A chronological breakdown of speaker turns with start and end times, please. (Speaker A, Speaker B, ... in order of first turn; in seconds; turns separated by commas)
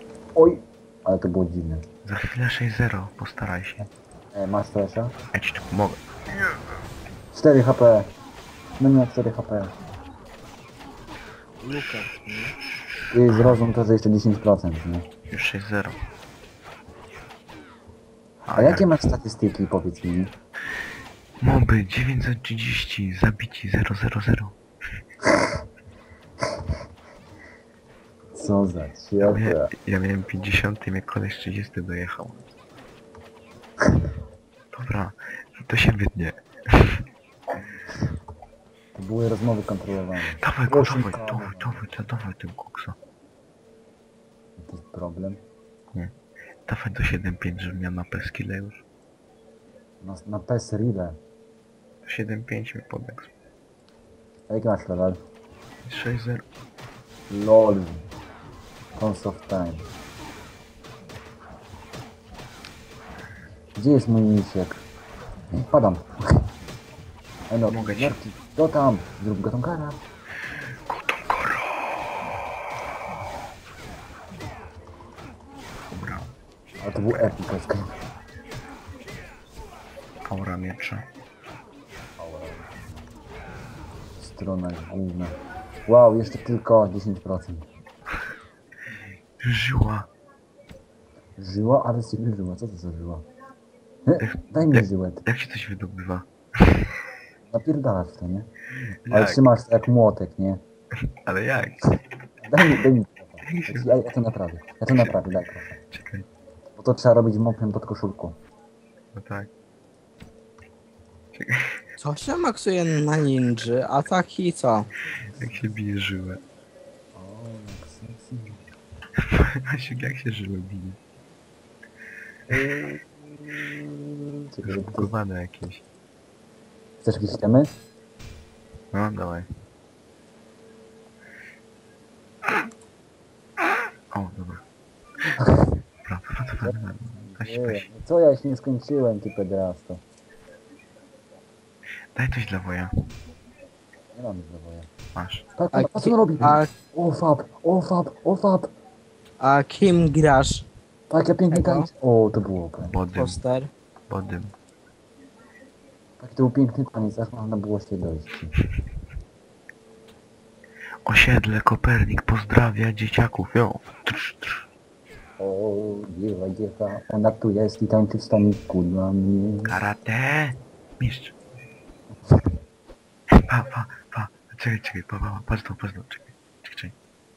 Speaker A: 0.3-1.8, Speaker B: 2.0-3.9, Speaker A: 4.3-5.1, Speaker B: 5.3-6.0, Speaker A: 7.3-8.1, Speaker A: 8.8-9.7, Speaker C: 11.6-12.6, Speaker A: 13.1-15.1, Speaker B: 13.3-13.6, Speaker B: 15.3-16.0, Speaker B: 18.4-19.0, Speaker A: 18.5-20.3, Speaker B: 21.4-24.6, Speaker A: 28.3-29.7, Speaker B: 29.2-32.5, Speaker B: 34.7-37.0, Speaker A: 38.9-41.9, Speaker B: 40.4-43.0, Speaker A: 44.6-45.4, Speaker B: 46.6-48.8, Speaker A: 50.0-51.2, Speaker B: 52.0-53.3, Speaker A: 54.5-55.2, Speaker B: 55.8-56.4, Speaker A: 57.3-58.0, Speaker A: 59.0-59.8, Speaker A: 63.8-64.8, Speaker A: 65.5-66.1, Speaker A: 67.5-70.0, Speaker B: 67.7-68.2, Speaker B: 70.8-71.7, Speaker B: 75.9-76.3, Speaker A: 76.8-77.9, Speaker B: 77.1-77.3, Speaker B: 80.3-81.1, Speaker A: 82.2-82.7, Speaker A: 84.2-87.7, Speaker B: 89.4-90.1, Speaker A: 91.4-93.2, Speaker A: 94.1-95.2, Speaker B: 94.2-96.9, Speaker A: 97.5-98.5, Speaker B: 99.0-99.4, Speaker A: 99.1-100.6, Speaker B: 101.2-101.8, Speaker A: 102.4-105.8, Speaker B: 103.4-103.9, Speaker B: 104.9-105.2, Speaker B: 105.9-106.3, Speaker A: 106.8-108.4, Speaker B: 109.1-109.5, Speaker B: 111.3-111.8, Speaker C: 112.0-114.9, Speaker A: 115.2-115.7, Speaker B: 115.4-116.4, Speaker A: 117.1-118.6, Speaker B: 119.2-121.0, Speaker A: 122.5-125.1, Speaker B: 124.6-125.8, Speaker A: 127.0-127.7, Speaker B: 128.9-129.5, Speaker B: 134.1-134.6, Speaker B: 136.0-137.8, Speaker A: 136.6-140.0, Speaker B: 142.1-142.9, Speaker A: 144.1-144.9, Speaker B: 145.1-145.5, Speaker A: 145.6-148.7, Speaker C: 145.7-146.7, Speaker C: 149.4-150.7, Speaker A: 151.1-152.9, Speaker C: 151.5-151.9, Speaker B: 152.8-153.4, Speaker C: 153.1-153.7, Speaker B: 154.1-154.5, Speaker A: 156.2-158.5, Speaker B: 161.0-164.7, Speaker A: 165.4-169.7, Speaker B: 169.6-171.3, Speaker B: 173.4-176.9